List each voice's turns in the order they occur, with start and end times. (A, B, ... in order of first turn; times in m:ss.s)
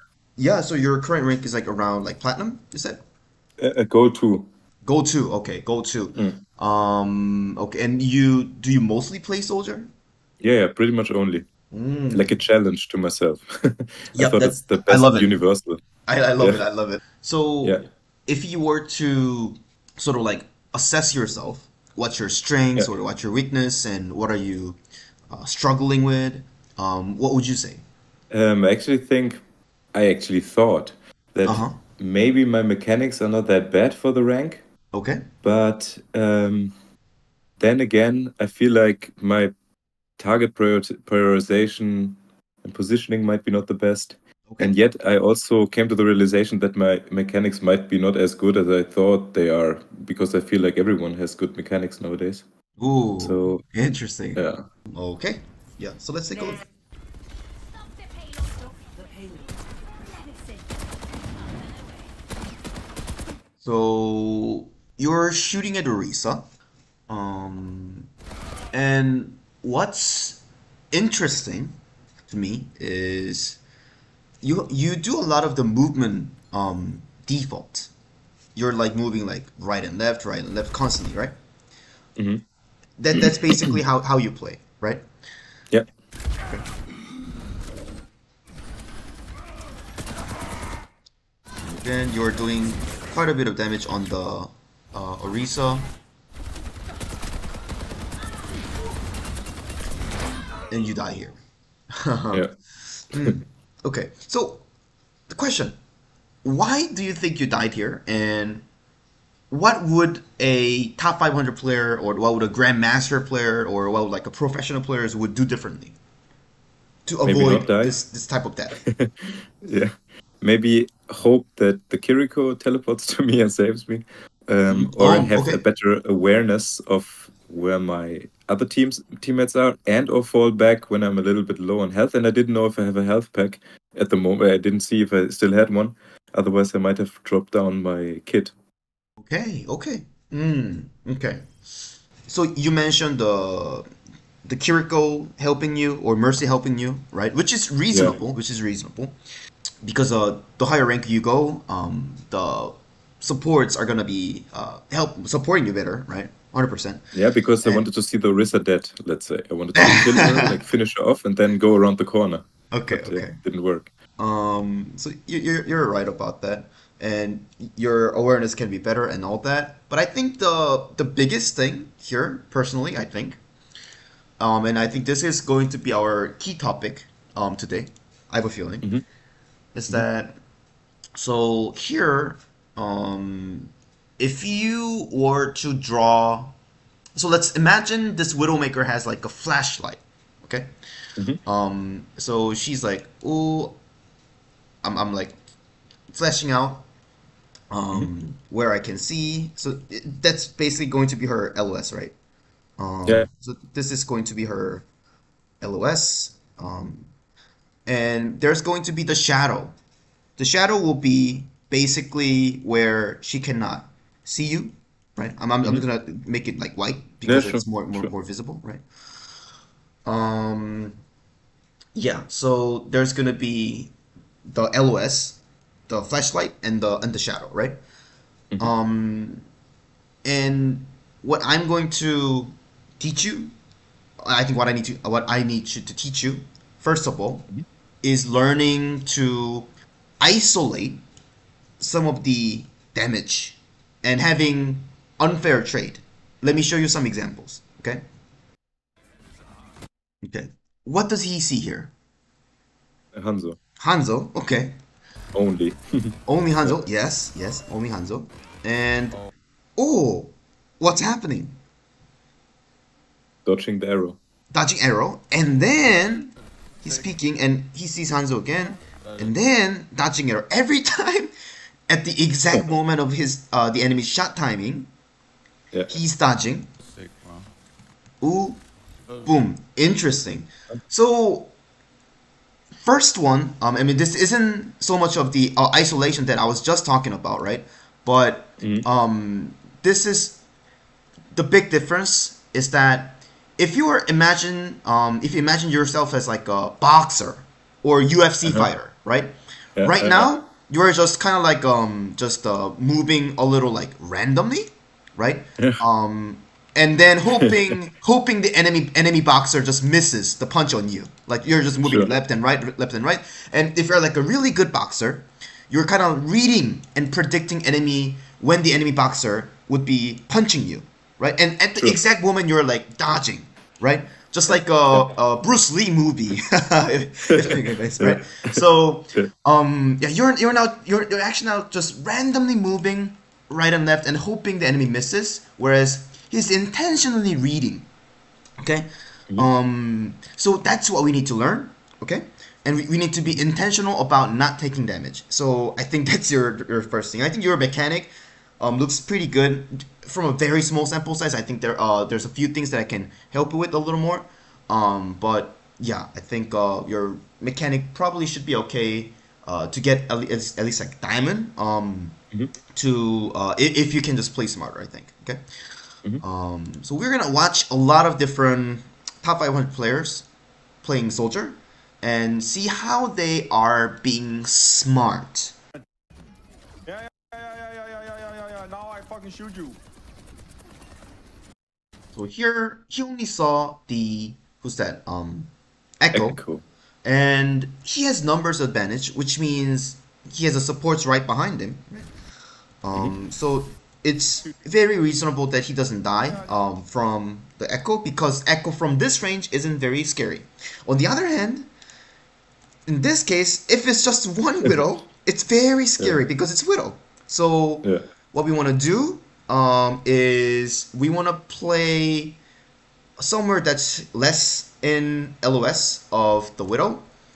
0:00.4-0:03.0 A
0:03.6-0:04.5 B
0:04.8-0:09.9 A
0:06.2-0:06.4 B
0:10.4-0:11.5 B
0:11.7-0:12.3 A
0:12.1-0:15.8 B
0:14.1-0:15.4 A
0:16.1-0:24.8 A
0:25.3-0:27.8 A
0:28.3-0:29.4 B
0:29.9-0:34.6 B
0:31.4-0:31.8 A
0:34.9-0:35.3 A
0:35.4-0:36.7 B
0:37.6-0:39.5 B
0:40.2-0:52.4 B
0:52.8-0:54.4 A
0:53.2-0:53.7 B
0:54.4-0:54.7 B
0:54.9-0:56.6 A
0:57.8-1:00.7 C
1:03.6-1:06.5 A
1:07.1-1:08.1 A
1:08.7-1:11.8 A
1:12.3-1:13.6 A
1:14.4-1:17.9 A
1:18.6-1:21.4 A
1:22.2-1:22.4 B
1:23.0-1:25.1 A
1:23.2-1:23.8 B
1:31.6-1:35.9 A
1:40.7-1:41.4 A
1:41.9-1:42.5 A
1:42.3-1:42.6 B
1:43.1-1:44.6 A
1:45.3-1:45.8 A
1:46.4-1:48.6 A
1:49.5-1:56.0 A
1:57.1-1:58.8 A
1:57.2-1:58.0 B
1:58.8-2:18.5 B
2:04.7-2:05.6 A
2:19.2-2:21.5 A
2:22.3-2:23.9 A
2:24.4-2:29.2 A
2:27.9-2:28.2 B
2:29.8-2:37.1 A
2:37.1-2:43.9 B
2:39.8-2:40.6 A
2:42.7-2:43.4 A
2:44.2-2:53.4 A
2:54.4-2:58.9 A
2:59.8-3:00.4 A
3:01.2-3:06.6 A
3:07.2-3:10.7 A
3:11.4-3:13.8 A
3:14.8-3:15.4 A
3:16.1-3:16.8 A
3:17.7-3:22.1 A
3:22.8-3:24.8 A
3:25.6-3:27.1 A
3:27.9-3:29.8 A
3:30.4-3:38.8 A
3:37.2-3:38.1 B
3:40.0-3:41.0 A
3:42.0-3:43.9 A
3:44.5-3:45.4 A
3:45.9-3:47.8 A
3:48.6-3:49.4 A
3:50.2-3:53.5 A
3:54.2-3:57.5 A
3:58.0-3:59.7 A
4:00.2-4:01.0 A
4:01.8-4:08.0 A
4:10.2-4:11.9 A
4:13.1-4:13.6 B
4:13.8-4:14.8 A
4:15.3-4:16.8 B
4:16.3-4:19.2 A
4:19.8-4:21.6 A
4:23.4-4:24.2 B
4:24.5-4:31.3 A
4:31.9-4:34.9 A
4:35.9-4:36.7 A
4:36.9-4:37.4 D
4:38.2-4:38.6 A
4:39.2-4:41.5 A
4:42.8-4:50.4 A
4:48.6-4:48.9 B
4:51.3-5:37.9 A
4:59.8-5:00.3 B
5:11.9-5:12.1 B
5:27.3-5:28.5 B
5:38.6-6:02.2 A
6:02.8-6:05.4 A
6:06.2-6:10.3 A
6:10.8-6:15.6 A
6:16.9-6:19.8 D
6:22.2-6:26.4 A
6:26.1-6:26.6 B
6:27.0-6:32.1 A
6:32.8-6:41.7 A
6:42.9-6:52.4 A
6:53.2-6:57.1 A